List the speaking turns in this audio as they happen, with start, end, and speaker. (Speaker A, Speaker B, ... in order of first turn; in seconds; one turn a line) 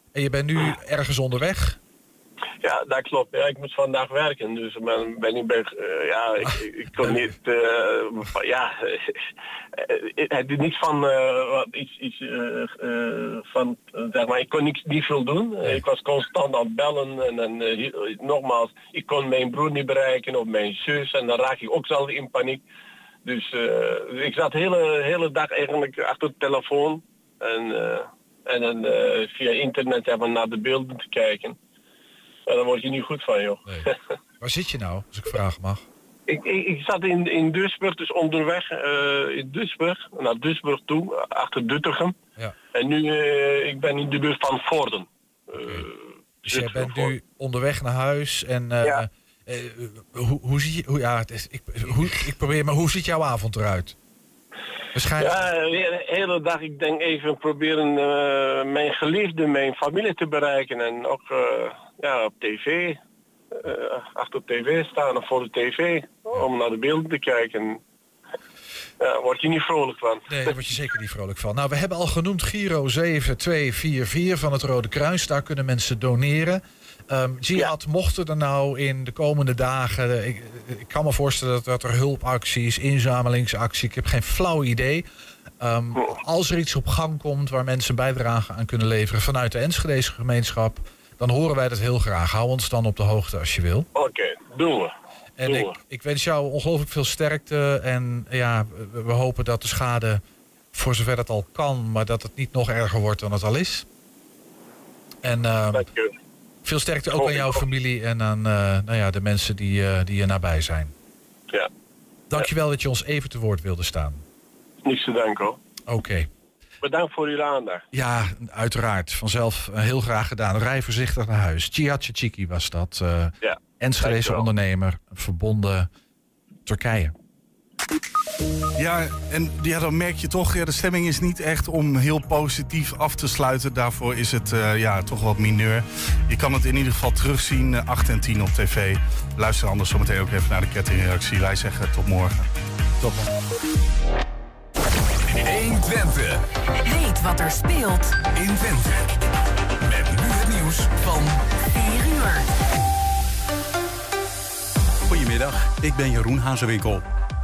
Speaker A: 0.1-1.8
Speaker B: 2.6-9.2
Speaker B: 9.7-22.6
Speaker B: 23.2-31.6
Speaker B: 32.5-34.0
Speaker A: 34.4-35.8
Speaker B: 36.3-42.1
Speaker B: 42.7-47.1
Speaker A: 45.5-45.8
Speaker A: 46.4-54.0
Speaker A: 54.9-55.4
Speaker B: 55.2-63.0
Speaker B: 63.5-67.8
Speaker B: 69.0-70.5
Speaker A: 70.3-85.1
Speaker A: 85.6-93.9
Speaker B: 93.9-94.9
Speaker A: 95.4-100.2
Speaker B: 95.5-95.8
Speaker A: 100.7-103.9
Speaker A: 105.2-105.9
Speaker B: 105.7-106.1
Speaker A: 106.6-110.9
Speaker B: 107.1-107.6
Speaker A: 112.3-114.2
Speaker B: 114.8-115.6
Speaker A: 115.9-116.3
Speaker B: 116.8-117.8
Speaker A: 117.9-125.9
Speaker B: 123.4-124.5
Speaker A: 126.7-127.1
Speaker C: 128.8-142.4
Speaker D: 145.3-146.4
Speaker E: 146.8-148.2
Speaker D: 148.3-149.1
Speaker D: 149.8-151.4
Speaker E: 151.7-152.5
Speaker F: 155.1-157.0